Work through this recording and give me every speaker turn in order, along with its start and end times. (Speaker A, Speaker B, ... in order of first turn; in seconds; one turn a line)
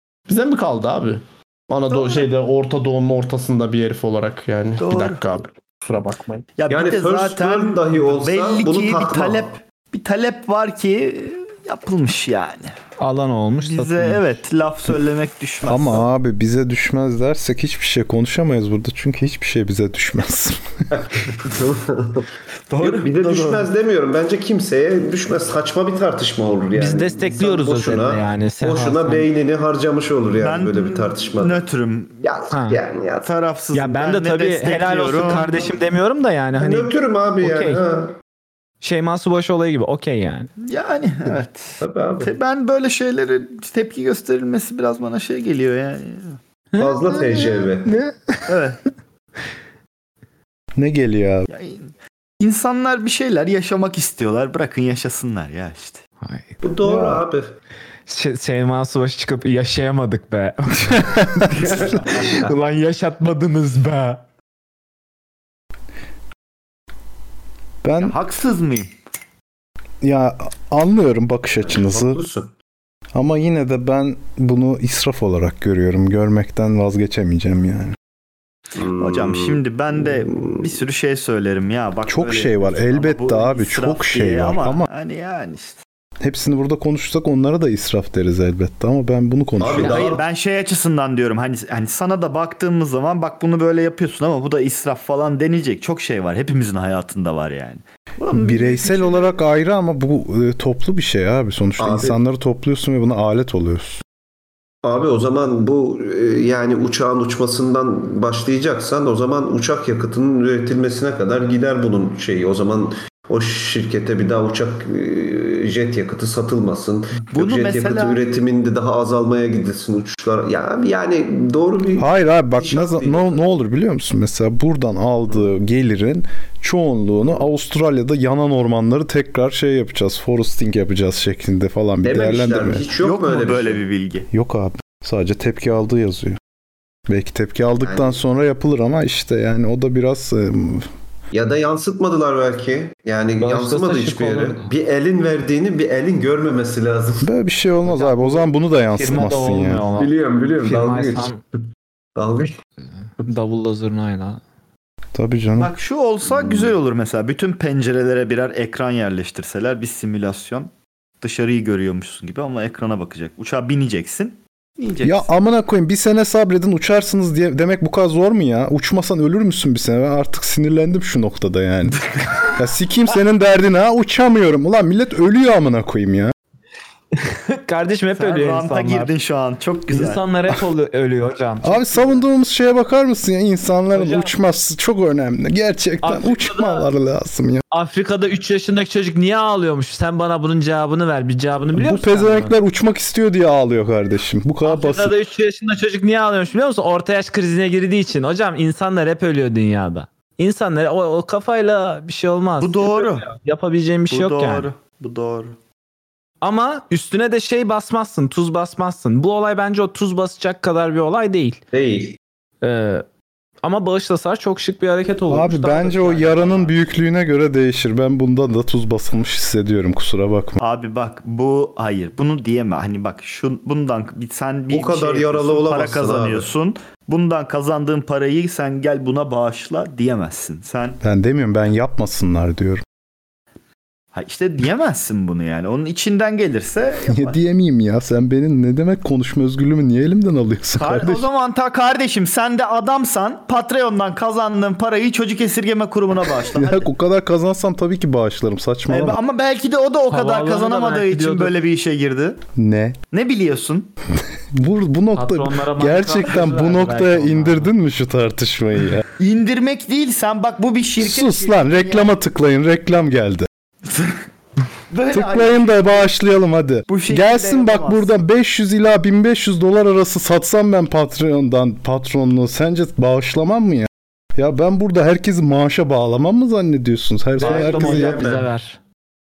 Speaker A: 0.3-6.5
Speaker B: 4.8-5.2
Speaker B: 6.6-12.7
Speaker C: 6.7-9.5
Speaker D: 13.0-14.3
Speaker B: 13.6-16.1
Speaker E: 15.6-20.6
Speaker C: 20.9-22.3
Speaker B: 22.7-23.7
Speaker C: 22.8-31.6
Speaker D: 26.8-29.3
Speaker B: 30.4-32.2
Speaker C: 32.2-33.3
Speaker D: 32.5-32.8
Speaker B: 33.2-35.5
Speaker D: 33.7-37.8
Speaker C: 36.6-38.1
Speaker D: 38.8-40.5
Speaker B: 40.6-46.4
Speaker C: 41.8-42.3
Speaker D: 46.7-48.4
Speaker C: 46.8-47.9
Speaker B: 48.5-48.8
Speaker E: 50.8-51.5
Speaker B: 51.5-56.0
Speaker D: 56.2-56.6
Speaker C: 56.6-57.5
Speaker E: 56.8-57.2
Speaker D: 58.1-64.2
Speaker E: 60.9-61.5
Speaker C: 61.6-62.4
Speaker E: 67.8-68.2
Speaker B: 68.0-68.9
Speaker E: 70.0-72.2
Speaker C: 71.6-72.5
Speaker E: 73.2-78.0
Speaker C: 78.8-79.6
Speaker B: 78.8-85.8
Speaker C: 80.3-80.6
Speaker E: 82.1-84.9
Speaker E: 86.2-90.1
Speaker C: 89.6-90.2
Speaker B: 89.7-99.4
Speaker E: 98.3-104.0
Speaker C: 101.8-102.2
Speaker C: 104.8-123.5
Speaker B: 117.3-118.2
Speaker E: 122.0-132.8
Speaker C: 132.0-133.8
Speaker B: 133.0-134.3
Speaker E: 134.3-136.4
Speaker E: 137.1-140.9
Speaker C: 137.8-138.2
Speaker C: 141.3-147.3
Speaker D: 143.4-144.7
Speaker E: 147.2-149.8
Speaker D: 147.9-151.4
Speaker C: 150.0-151.3
Speaker C: 152.2-152.6
Speaker D: 153.2-154.4
Speaker E: 155.2-155.7
Speaker B: 155.6-160.7
Speaker C: 156.3-156.7
Speaker B: 161.2-165.3
Speaker E: 165.0-176.3
Speaker D: 177.2-179.1
Speaker B: 178.2-180.2
Speaker D: 179.9-182.2
Speaker E: 181.6-187.6
Speaker D: 183.9-184.3
Speaker D: 186.0-186.9
Speaker D: 187.7-192.6
Speaker E: 191.8-195.2
Speaker D: 194.7-204.7
Speaker B: 202.6-203.3
Speaker B: 204.1-205.6
Speaker D: 206.4-211.6
Speaker C: 211.7-212.2
Speaker D: 212.6-213.0
Speaker D: 213.6-216.8
Speaker E: 215.3-220.6
Speaker B: 220.6-231.0
Speaker C: 224.7-226.5
Speaker E: 231.0-232.8
Speaker B: 234.1-237.4
Speaker E: 237.1-241.3
Speaker B: 240.8-246.9
Speaker E: 246.4-249.2
Speaker B: 248.9-252.4
Speaker D: 250.1-251.6
Speaker E: 252.6-253.0
Speaker B: 253.1-253.9
Speaker E: 254.5-259.1
Speaker D: 255.2-257.7
Speaker B: 259.2-262.1
Speaker E: 261.0-263.5
Speaker B: 263.9-264.2
Speaker B: 264.9-266.1
Speaker E: 265.1-278.2
Speaker B: 266.9-268.1
Speaker D: 277.4-278.8
Speaker C: 277.4-278.5